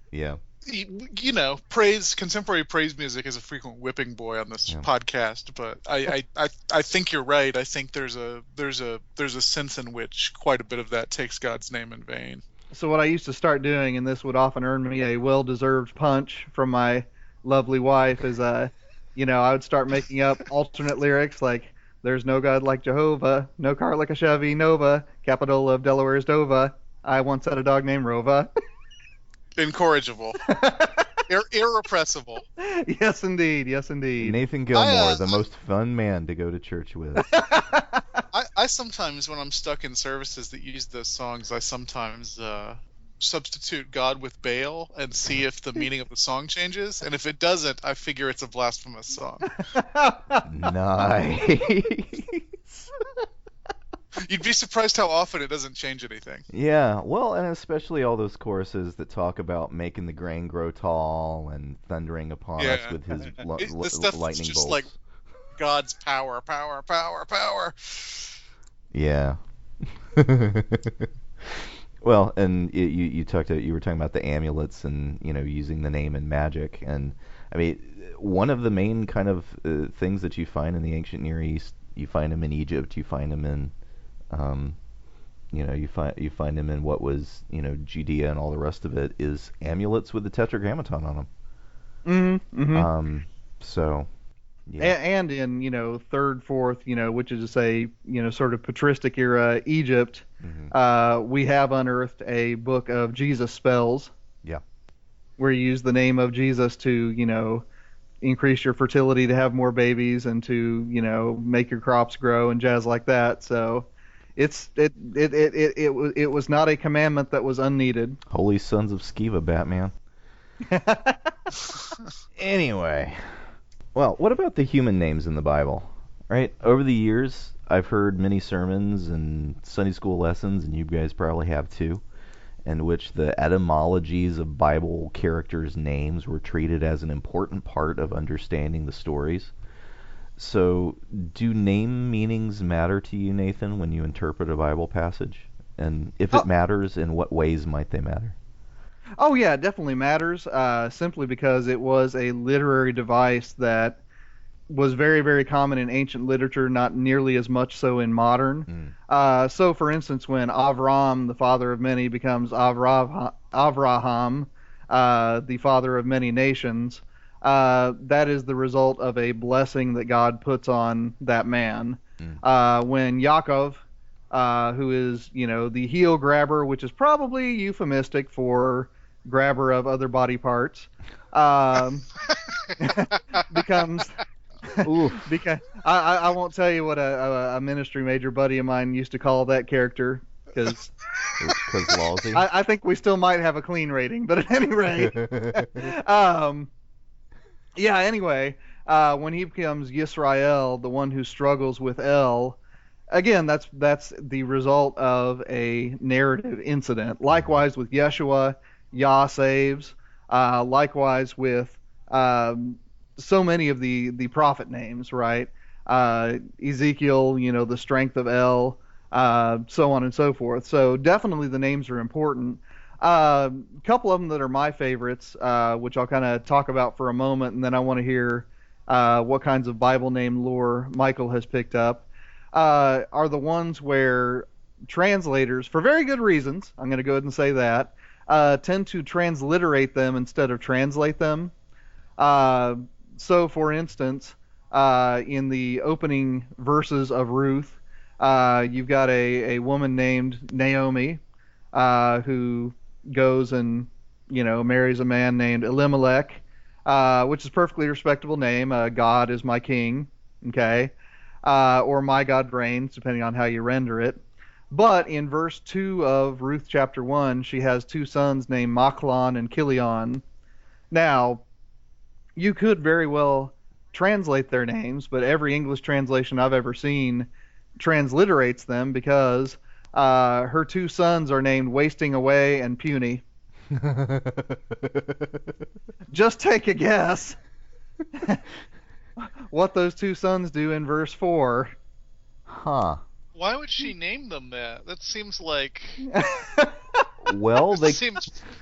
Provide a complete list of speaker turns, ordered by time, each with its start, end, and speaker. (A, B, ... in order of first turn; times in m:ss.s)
0:00.1-0:00.4 A
0:00.6-0:12.4 B
0:12.7-0:28.5 C
0:29.6-0:30.5 B
0:30.4-0:31.1 C
0:31.2-0:32.4 B
0:32.6-0:34.4 C
0:34.2-0:37.4 A
0:34.7-0:35.4 B
0:37.2-0:38.2 C
0:38.3-0:49.6 B
0:49.7-0:50.5 C
0:50.4-0:52.9 A
0:54.2-0:56.5 B
0:56.5-1:05.0 A
1:02.6-1:04.9 B
1:05.6-1:08.4 B
1:08.9-1:23.7 A
1:24.3-1:24.8 A
1:25.5-1:31.3 A
1:32.0-1:32.9 C
1:32.7-1:34.1 A
1:34.7-1:35.0 A
1:34.8-1:44.1 C
1:40.4-1:40.7 A
1:45.4-1:47.6 C
1:48.2-1:58.2 C
1:58.3-1:59.9 A
2:00.6-2:01.5 C
2:02.4-2:03.3 A
2:04.0-2:12.0 A
2:12.7-2:19.5 A
2:20.4-2:28.4 A
2:29.2-2:34.0 C
2:34.7-3:02.1 C
2:38.7-2:38.9 A
3:02.8-3:10.9 C
3:04.8-3:05.2 A
3:11.4-3:12.5 A
3:12.3-3:16.7 C
3:15.0-3:15.7 A
3:17.8-3:22.6 C
3:23.1-4:01.5 C
3:27.3-3:27.6 A
4:02.2-4:11.2 C
4:11.7-4:20.9 C
4:21.4-4:30.2 C
4:30.9-4:31.4 C
4:32.4-4:43.2 C
4:43.7-4:45.4 A
4:46.1-4:47.4 C
4:48.1-4:48.4 C
4:49.2-4:51.8 C
4:52.5-4:53.0 A
4:53.4-4:56.1 B
4:56.1-4:57.1 C
4:57.2-4:58.2 A
4:57.8-4:58.3 B